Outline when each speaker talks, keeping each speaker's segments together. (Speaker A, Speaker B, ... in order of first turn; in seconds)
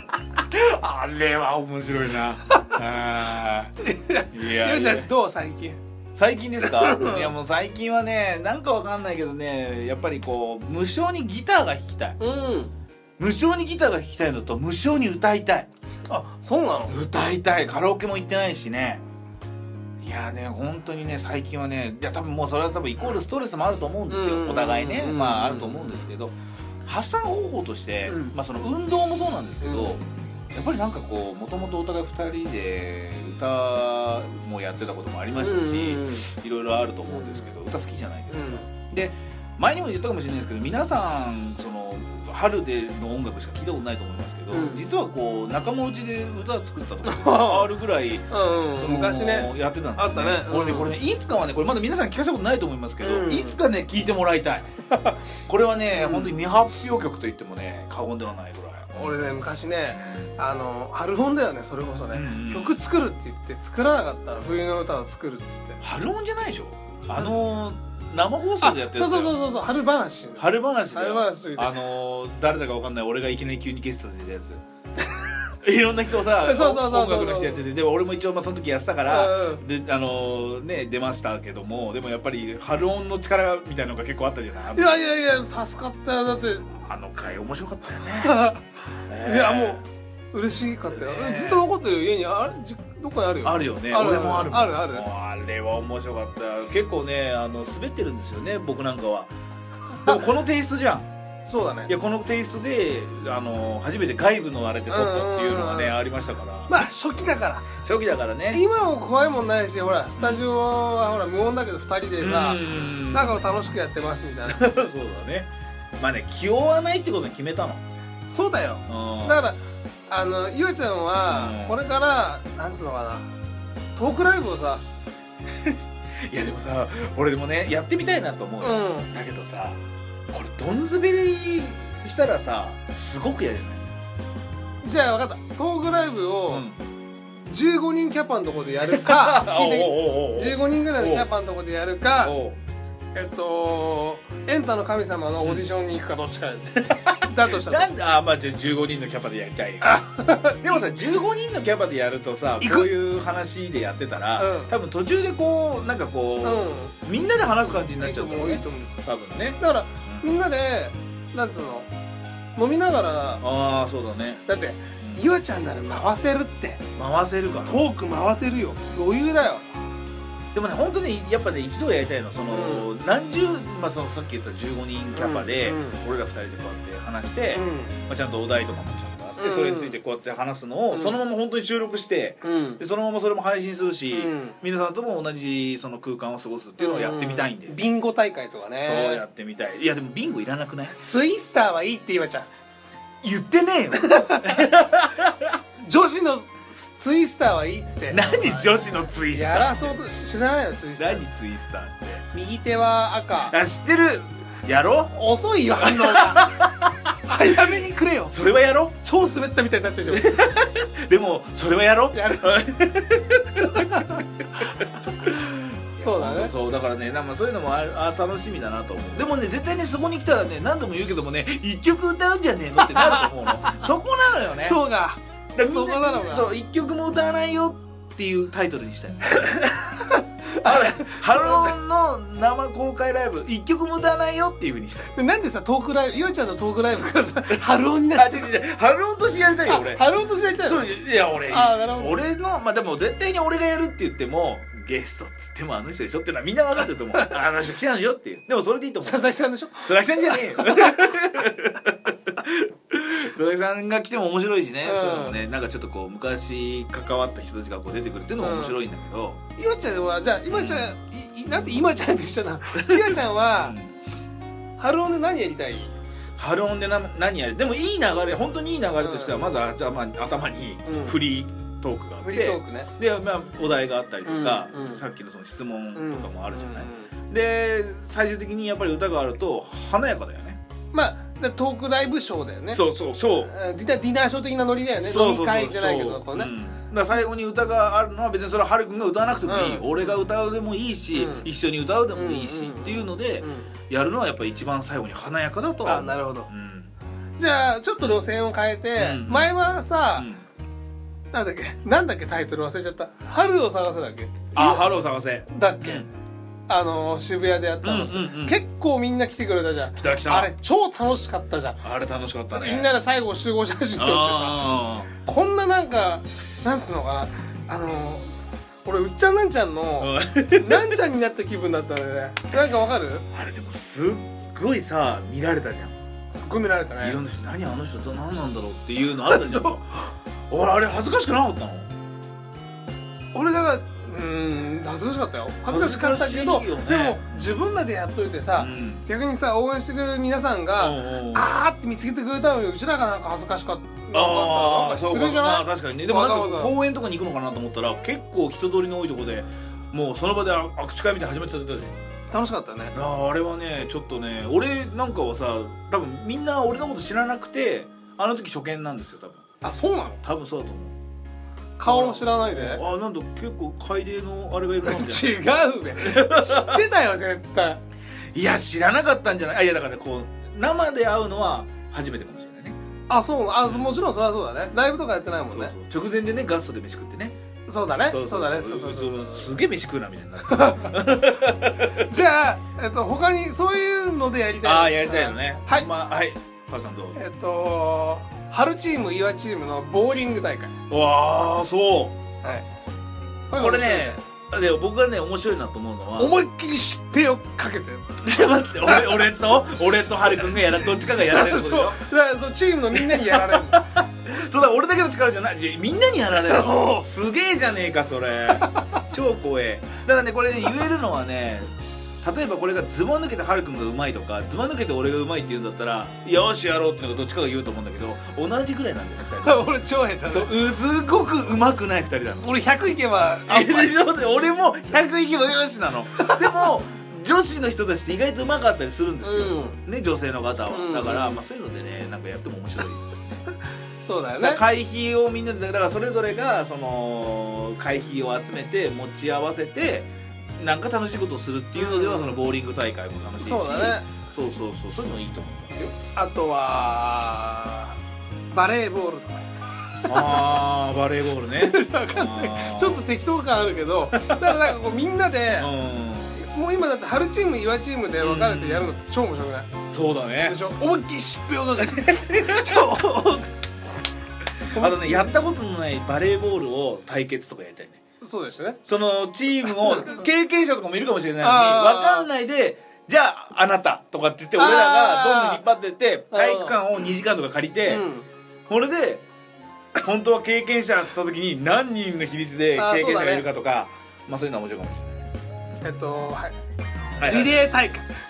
Speaker A: 0.4-3.7, 4.3-5.1, 6.2-12.2, 13.2-15.7, 16.9-19.0, 20.0-48.3, 48.8-54.7, 55.5-59.3, 59.9-60.4, 62.1-62.8, 65.8-69.4, 70.4-74.6, 75.6-85.2, 86.7-88.5, 89.1-89.8, 90.9-91.7, 93.4-99.3, 99.9-101.1, 101.9-106.8, 107.8-108.6, 110.2-110.5, 112.2-113.7, 114.5-117.8, 118.9-119.5, 121.3-121.8, 125.6-129.8, 130.3-133.9, 136.5-136.8, 138.9-141.3, 142.2-142.6, 146.8-160.3, 163.4-164.4, 165.0-165.3, 167.0-167.9, 170.5-187.9, 188.8-191.0, 193.2-195.5, 198.1-200.0, 201.0-202.2, 203.4-205.2, 205.8-206.9, 208.3-209.0, 210.1-214.0, 215.2-224.8, 225.6-229.4, 230.6-235.1, 238.1-240.0, 240.6-259.4, 260.5-260.9, 262.9-263.9, 266.4-280.6, 282.7-283.5, 285.0-296.9, 299.0-299.6, 300.1-300.4, 304.5-306.1, 307.8-308.6, 309.9-310.5, 311.8-312.9, 314.0-315.1, 320.0-321.0, 323.3-325.9, 327.0-331.9, 335.7-337.5, 338.6-339.0, 340.8-341.5, 344.1-352.0, 352.9-359.4, 360.2-361.0, 361.8-366.8, 368.3-372.8, 373.6-374.0, 375.5-377.4, 378.1-382.1, 384.6-387.2, 390.9-392.2, 393.5-396.4, 398.2-402.0, 402.9-419.7, 420.3-422.5, 423.5-433.4, 434.4-446.0, 450.1-453.1, 454.1-454.7, 455.6-456.4, 458.2-458.9, 459.9-460.6, 461.8-462.9, 464.7-468.0, 468.9-478.1, 478.7-479.2, 480.0-485.3, 487.2-487.6
Speaker B: 3.8-5.8, 6.6-7.3, 12.2-12.7, 16.1-17.0, 24.1-26.1, 28.1-28.4, 29.6-30.0, 35.4-36.3, 37.1-37.5, 38.3-38.6, 44.5-44.9, 47.0-47.7, 48.3-50.9, 53.0-53.6, 55.9-56.4, 59.0-65.8, 68.6-71.8, 76.4-77.7, 79.1-79.6, 84.7-86.7, 88.2-88.6, 89.2-95.1, 101.5-101.9, 104.9-106.0, 106.7-107.8, 108.5-114.7, 118.3-123.3, 124.0-124.8, 128.6-129.1, 134.8-136.7, 137.5-142.3, 143.2-147.9, 149.8-150.8, 152.6-152.9, 154.4-154.7, 156.4-156.9, 158.0-158.9, 159.6-161.9, 162.6-163.4, 164.5-166.8, 167.7-169.7, 172.5-172.9, 175.2-176.0, 177.5-177.9, 179.4-180.0, 180.9-181.2, 182.4-182.8, 184.1-184.6, 186.8-189.2, 191.0-192.5, 194.0-194.6, 195.8-198.7, 199.3-201.2, 202.3-203.6, 205.1-206.6, 207.3-208.4, 209.0-210.3, 212.1-212.6, 213.8-214.2, 216.0-216.5, 222.8-223.8, 224.6-226.5, 229.3-231.8, 235.1-238.5, 239.7-242.2, 247.1-247.4, 249.0-250.9, 254.8-255.4, 258.4-258.8, 259.6-263.8, 264.8-265.9, 269.0-269.5, 270.9-271.2, 272.2-272.9, 274.2-275.0, 275.9-277.1, 280.9-282.8, 283.4-286.5, 289.5-289.9, 291.1-291.5, 292.1-293.7, 295.9-296.5, 297.4-300.3, 301.3-304.9, 305.5-306.1, 306.7-311.8, 312.5-318.3, 318.9-323.2, 326.3-327.2, 329.2-329.8, 333.3-346.7, 352.3-352.9, 359.6-360.2, 361.8-362.8, 364.8-367.8, 373.1-375.7, 377.7-379.5, 380.5-381.1, 381.9-385.9, 387.1-390.7, 393.5-394.2, 396.2-398.3, 398.8-399.7, 400.4-403.8, 406.4-407.1, 419.4-420.5, 422.4-424.0, 426.2-426.5, 429.2-429.8, 430.7-431.4, 434.0-434.6, 441.8-442.4, 443.4-444.1, 446.2-448.0, 448.5-449.5, 450.0-450.6, 451.6-455.7, 456.4-459.7, 460.4-463.5, 464.7-465.4, 468.2-468.8, 469.7-470.2, 471.4-472.3, 474.6-475.6, 476.3-476.8, 477.9-478.3, 482.8-483.5, 485.8-486.6, 487.2-488.1